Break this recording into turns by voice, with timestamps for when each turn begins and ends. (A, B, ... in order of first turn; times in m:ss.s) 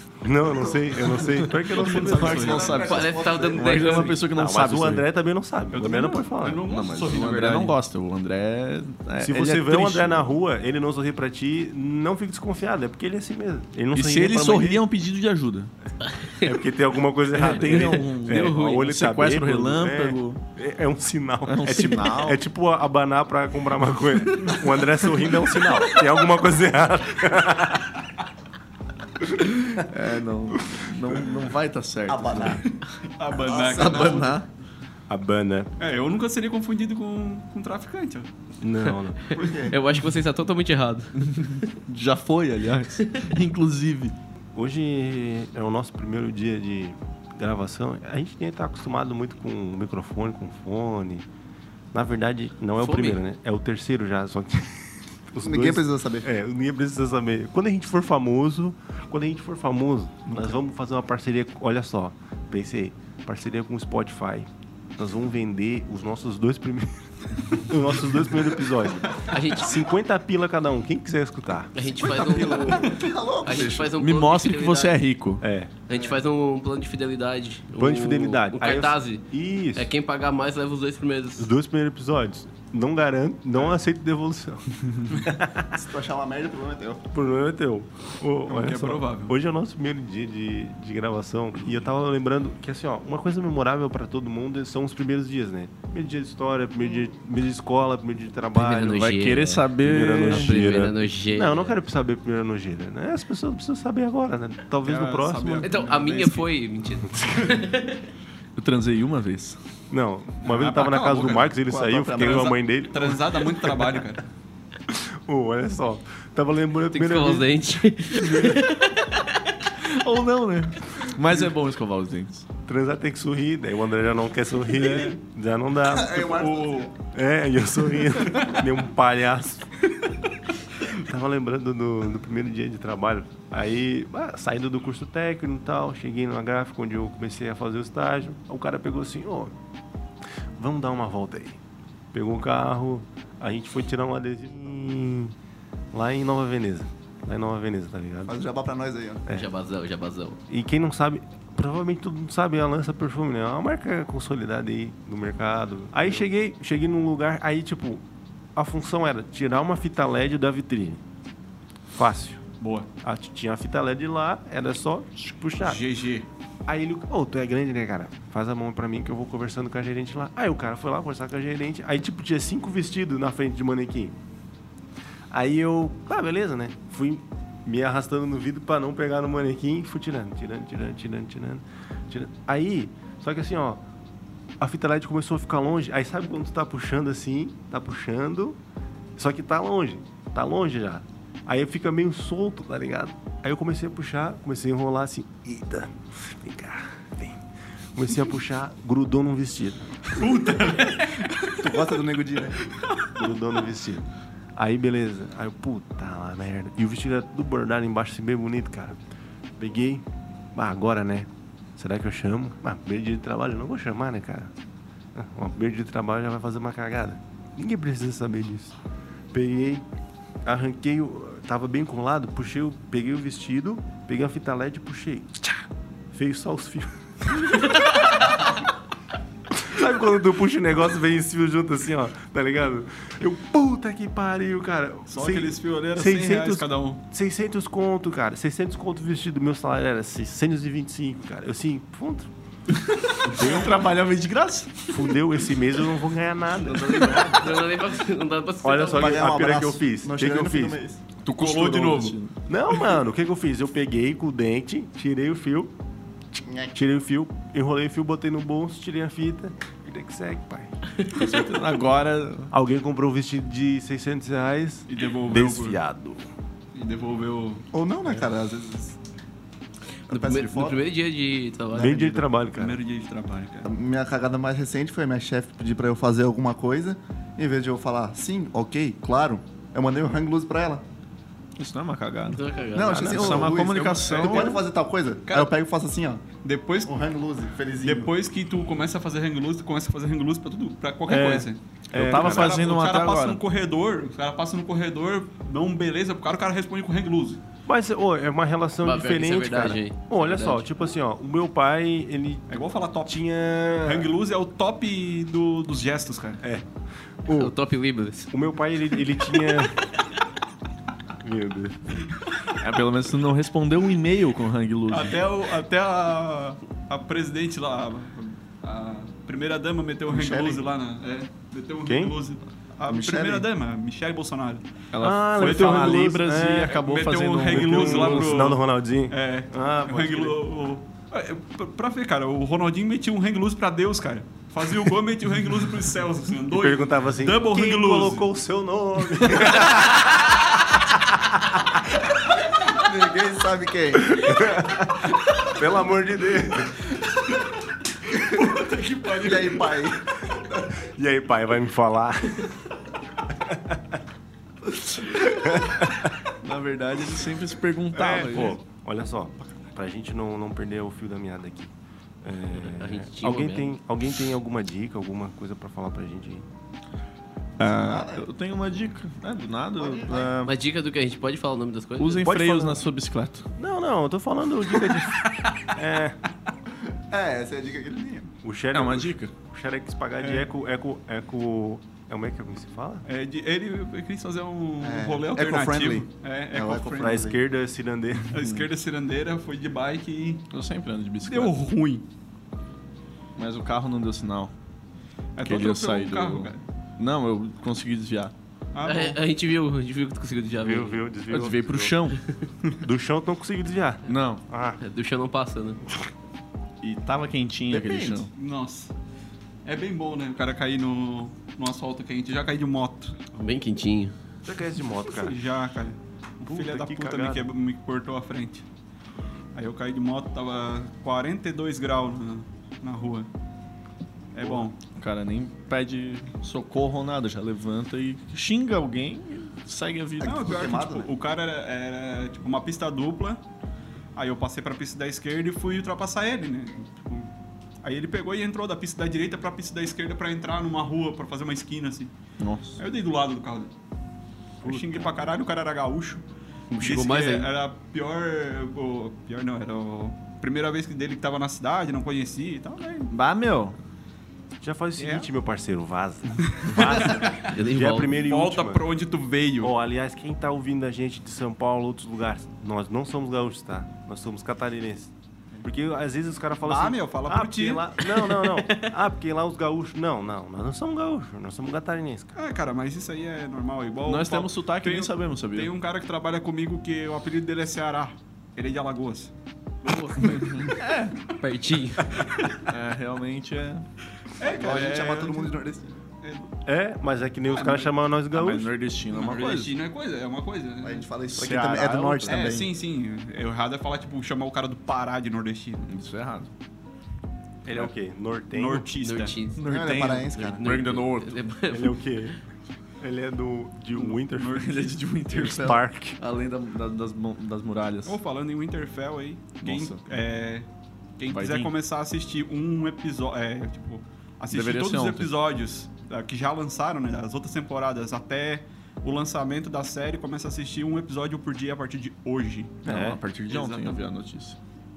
0:00.2-0:02.6 A
0:01.7-0:03.0 B
0:01.8-0:05.1 C
0:02.2-0:04.0 D
0:02.3-0:04.2 E
0:04.2-0:06.6 A
0:05.7-0:07.8 B
0:06.6-0:10.3 C
0:09.2-0:14.8 A
0:13.9-0:15.7 C
0:16.4-0:28.0 A
0:17.3-0:20.4 C
0:17.6-0:18.8 E
0:21.5-0:22.4 C
0:29.8-0:32.6 C
0:32.1-0:32.6 D
0:32.7-0:34.4 B
0:33.5-0:34.4 D
0:33.7-0:34.5 C
0:35.1-0:35.7 A
0:35.8-0:38.3 B
0:38.6-0:39.2 A
0:39.3-0:41.6 E
0:39.4-0:39.8 D
0:41.2-0:44.2 C
0:44.6-0:51.3 A
0:51.9-1:11.9 A
0:52.8-0:53.2 E
0:55.4-0:56.3 D
1:00.3-1:00.6 D
1:09.3-1:09.8 E
1:11.8-1:15.0 E
1:12.0-1:14.0 D
1:14.0-1:15.4 C
1:15.4-1:15.7 A
1:15.9-1:21.5 E
1:17.8-1:19.9 A
1:21.4-1:25.8 A
1:25.7-1:27.0 D
1:27.1-1:39.1 A
1:28.5-1:29.4 B
1:38.6-1:39.7 E
1:38.9-1:40.7 C
1:39.8-1:45.7 A
1:40.2-1:41.8 E
1:44.8-1:46.5 B
1:45.6-1:48.0 E
1:48.6-1:49.6 C
1:49.9-1:54.0 A
1:50.4-1:54.3 B
1:54.9-1:58.6 A
1:56.9-1:59.5 E
1:59.8-2:02.4 C
2:02.7-2:06.3 A
2:04.8-2:05.2 B
2:05.8-2:06.9 D
2:06.2-2:06.9 B
2:07.1-2:09.7 A
2:10.9-2:19.5 A
2:20.6-2:21.6 A
2:22.1-2:25.4 A
2:25.9-2:28.4 A
2:28.3-2:29.3 D
2:29.3-2:30.4 E
2:30.5-2:38.0 A
2:38.6-2:41.0 A
2:41.9-2:42.4 A
2:42.6-2:42.9 B
2:43.0-2:45.8 A
2:45.6-2:46.3 B
2:46.7-2:54.2 A
2:55.3-3:03.8 A
3:04.6-3:08.6 A
3:09.2-3:17.4 A
3:18.0-3:20.2 A
3:20.1-3:21.7 B
3:21.6-3:22.6 D
3:23.1-3:29.0 A
3:29.6-3:34.5 A
3:35.2-3:38.8 A
3:39.3-3:39.8 A
3:40.4-3:45.5 A
3:46.1-3:47.7 A
3:49.5-4:02.3 A
3:55.1-3:57.0 B
4:02.9-4:05.2 C
4:03.3-4:03.7 A
4:04.9-4:07.6 A
4:06.8-4:07.3 C
4:07.3-4:09.4 E
4:08.6-4:10.8 A
4:08.9-4:11.0 D
4:11.2-4:12.4 C
4:11.4-4:12.2 B
4:12.5-4:15.7 A
4:16.4-4:16.8 D
4:16.7-4:20.8 A
4:21.1-4:22.5 C
4:22.5-4:26.2 A
4:24.9-4:25.8 B
4:26.8-4:27.7 B
4:27.7-4:29.0 D
4:30.1-4:30.8 D
4:30.1-4:32.3 E
4:31.7-4:32.8 A
4:32.5-4:33.7 B
4:33.6-4:40.8 D
4:41.6-4:42.4 C
4:42.3-4:43.3 E
4:42.7-4:46.2 D
4:42.9-4:43.6 A
4:43.0-4:44.6 C
4:44.3-4:44.5 A
4:45.3-4:45.5 B
4:46.4-4:47.0 B
4:46.8-4:48.1 D
4:47.8-4:57.4 B
4:51.1-4:52.6 A
4:51.9-4:53.4 C
4:57.7-5:02.5 A
4:58.8-5:00.7 E
5:02.5-5:03.2 B
5:03.1-5:04.1 A
5:03.8-5:06.4 B
5:06.4-5:06.7 A
5:07.2-5:07.5 A
5:07.3-5:08.3 E
5:08.3-5:09.8 A
5:11.2-5:12.0 A
5:12.6-5:15.2 C
5:14.9-5:24.8 B
5:20.1-5:20.6 D
5:21.8-5:22.2 A
5:22.9-5:23.5 D
5:24.9-5:28.4 C
5:25.0-5:26.8 A
5:25.4-5:26.0 B
5:26.7-5:38.3 B
5:27.5-5:30.4 A
5:36.5-5:40.4 A
5:40.9-5:41.6 A
5:42.4-5:44.5 D
5:44.0-5:46.9 A
5:48.4-5:49.8 B
5:49.1-5:50.7 D
5:50.8-5:52.6 A
5:53.5-5:54.0 A
5:55.1-5:56.1 A
5:56.4-5:58.6 C
5:58.0-6:01.7 A
6:02.2-6:06.4 A
6:02.6-6:03.7 E
6:07.6-6:10.5 C
6:07.7-6:08.3 D
6:09.8-6:10.3 D
6:10.4-6:12.3 E
6:12.0-6:13.5 C
6:12.2-6:12.8 A
6:13.6-6:16.2 A
6:17.1-6:18.3 D
6:18.4-6:23.0 A
6:18.7-6:19.3 C
6:20.2-6:20.5 B
6:23.1-6:27.3 B
6:24.8-6:27.4 D
6:26.9-6:28.3 A
6:28.3-6:30.5 B
6:28.3-6:28.7 C
6:30.5-6:31.6 C
6:31.2-6:32.1 B
6:33.4-6:34.5 C
6:35.4-6:36.6 B
6:35.4-6:38.3 C
6:38.7-6:39.2 B
6:38.8-6:41.0 E
6:40.6-6:42.0 A
6:41.3-6:42.2 C
6:42.8-6:44.8 A
6:44.1-6:44.4 C
6:44.8-6:45.8 E
6:46.8-6:48.3 C
6:47.7-6:48.3 D
6:48.4-6:48.9 B
6:49.6-6:53.2 B
6:53.4-6:54.1 E
6:54.5-6:55.4 A
6:55.1-6:58.6 B
6:56.4-6:57.4 A
6:59.6-7:03.3 B
7:04.3-7:04.8 B
7:04.8-7:10.4 C
7:10.2-7:11.1 D
7:10.2-7:13.4 B
7:14.2-7:17.3 B
7:17.8-7:22.1 B
7:22.4-7:22.8 C
7:22.8-7:23.7 B
7:24.6-7:26.2 B
7:24.6-7:25.4 A
7:26.7-7:27.5 E
7:26.8-7:33.1 B
7:33.1-7:33.8 C
7:34.6-7:38.8 A
7:35.0-7:35.3 B
7:36.6-7:37.5 B
7:36.9-7:38.2 E
7:38.1-7:39.7 B
7:39.6-7:45.1 A
7:45.6-7:52.3 A
7:46.6-7:48.0 B
7:48.1-7:48.9 E
7:52.4-7:59.3 B
7:54.0-7:55.7 C
7:59.8-8:00.2 E
8:00.2-8:00.8 B
8:00.2-8:01.2 C
8:01.3-8:02.3 E
8:02.7-8:03.9 C
8:04.4-8:05.5 B
8:04.4-8:06.0 D
8:06.2-8:06.5 B
8:06.6-8:08.7 A
8:07.5-8:07.9 B
8:08.3-8:09.8 C
8:09.1-8:11.1 B
8:10.8-8:12.7 D
8:11.3-8:12.4 C
8:12.2-8:15.9 B
8:15.9-8:16.5 C
8:17.6-8:18.9 A
8:18.5-8:19.4 B
8:19.0-8:22.0 E
8:19.6-8:21.4 C
8:19.7-8:20.6 D
8:21.7-8:22.4 A
8:23.0-8:26.2 A
8:24.0-8:24.7 B
8:24.4-8:28.2 C
8:28.0-8:30.7 B
8:31.2-8:42.8 B
8:31.3-8:31.7 C
8:34.5-8:35.3 C
8:42.8-8:43.2 A
8:42.8-8:44.6 C
8:43.5-8:44.0 B